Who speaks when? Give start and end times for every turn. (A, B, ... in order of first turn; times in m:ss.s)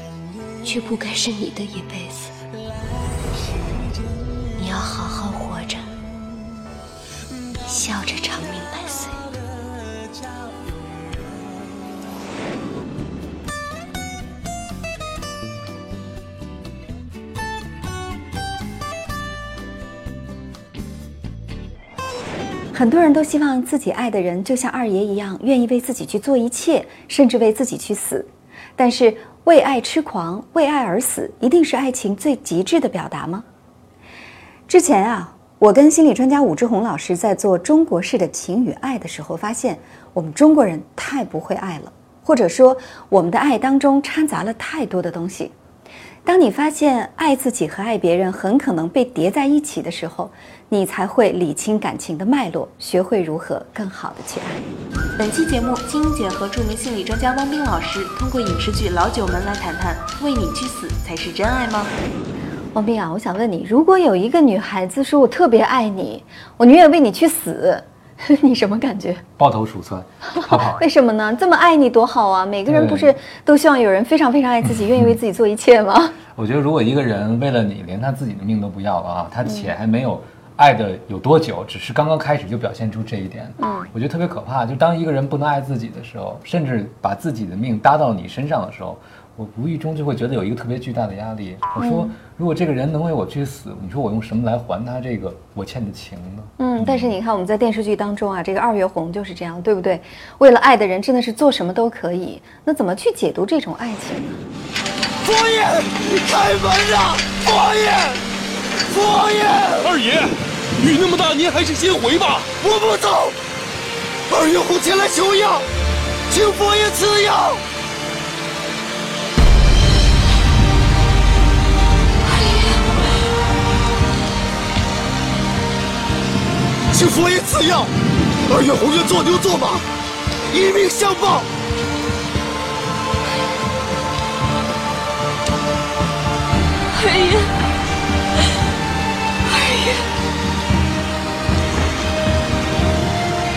0:00.6-0:02.3 A
0:04.6-0:06.0 A
0:07.6-0:09.2 A
0:22.7-0:33.4 B
0:34.7-0:45.5 B
0:46.2-0:54.6 B
0:55.2-1:01.9 C
1:02.7-1:09.2 B
1:09.4-1:10.8 D
1:10.4-1:16.2 B
1:12.7-1:13.2 D
1:16.4-1:37.2 D
1:19.4-1:19.7 B
1:23.6-1:23.9 B
1:31.8-1:32.1 B
1:36.6-1:44.4 B
1:45.2-1:48.2 E
1:48.9-1:50.0 E
1:49.9-1:50.3 F
1:50.8-1:52.4 F
1:52.5-1:53.4 E
1:54.3-1:55.6 E
1:56.3-1:57.6 E
2:06.9-2:07.9 E
2:08.5-2:09.8 E
2:10.5-2:11.5 E
2:17.0-2:17.5 A